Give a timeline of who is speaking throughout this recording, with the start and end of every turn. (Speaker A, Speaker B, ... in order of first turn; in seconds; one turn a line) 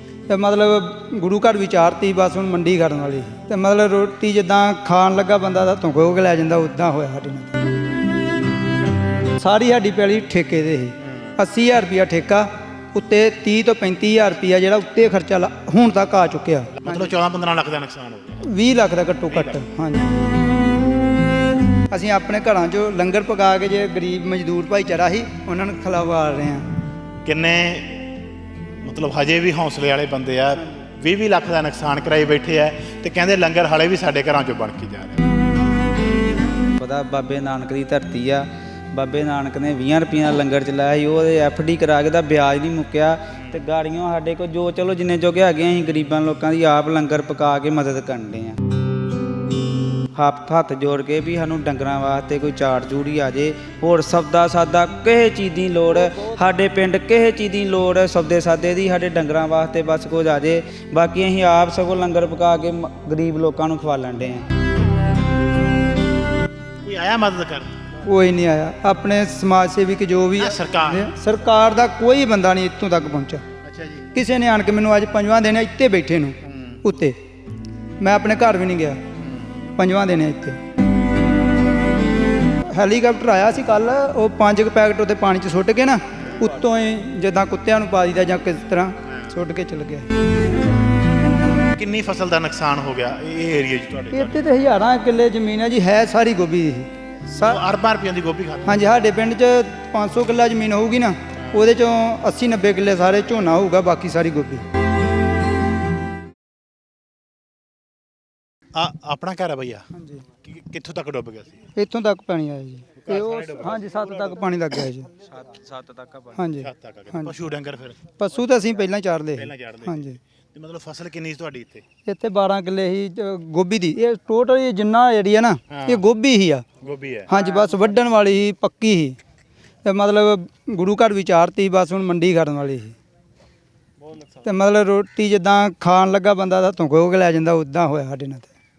Speaker A: 0.3-7.5
Speaker A: 9.4-17.1
Speaker B: 11.0-11.3
Speaker B: 16.8-18.4
Speaker A: 18.4-20.1
Speaker B: 19.3-19.6
Speaker A: 21.9-26.6
Speaker B: 27.2-28.0
Speaker B: 28.8-35.2
Speaker C: 36.8-48.6
Speaker C: 50.1-64.5
Speaker B: 66.8-67.7
Speaker A: 68.0-73.4
Speaker B: 70.4-71.1
Speaker B: 73.6-74.0
Speaker A: 74.1-77.2
Speaker B: 76.4-76.8
Speaker A: 78.0-79.0
Speaker B: 79.2-79.6
Speaker A: 79.8-80.6
Speaker A: 82.7-90.0
Speaker B: 91.7-94.4
Speaker A: 94.1-97.6
Speaker B: 97.4-98.9
Speaker A: 98.7-104.6
Speaker B: 108.7-109.8
Speaker A: 109.9-110.2
Speaker B: 110.4-111.6
Speaker A: 111.7-115.1
Speaker B: 113.0-114.4
Speaker C: 115.3-116.4
Speaker A: 116.3-117.3
Speaker B: 116.6-118.0
Speaker A: 118.2-120.2
Speaker B: 119.3-120.0
Speaker B: 120.5-121.8
Speaker A: 122.0-126.6
Speaker B: 125.7-126.0
Speaker B: 126.8-127.3
Speaker A: 127.3-129.2
Speaker A: 129.8-132.9
Speaker A: 134.4-138.5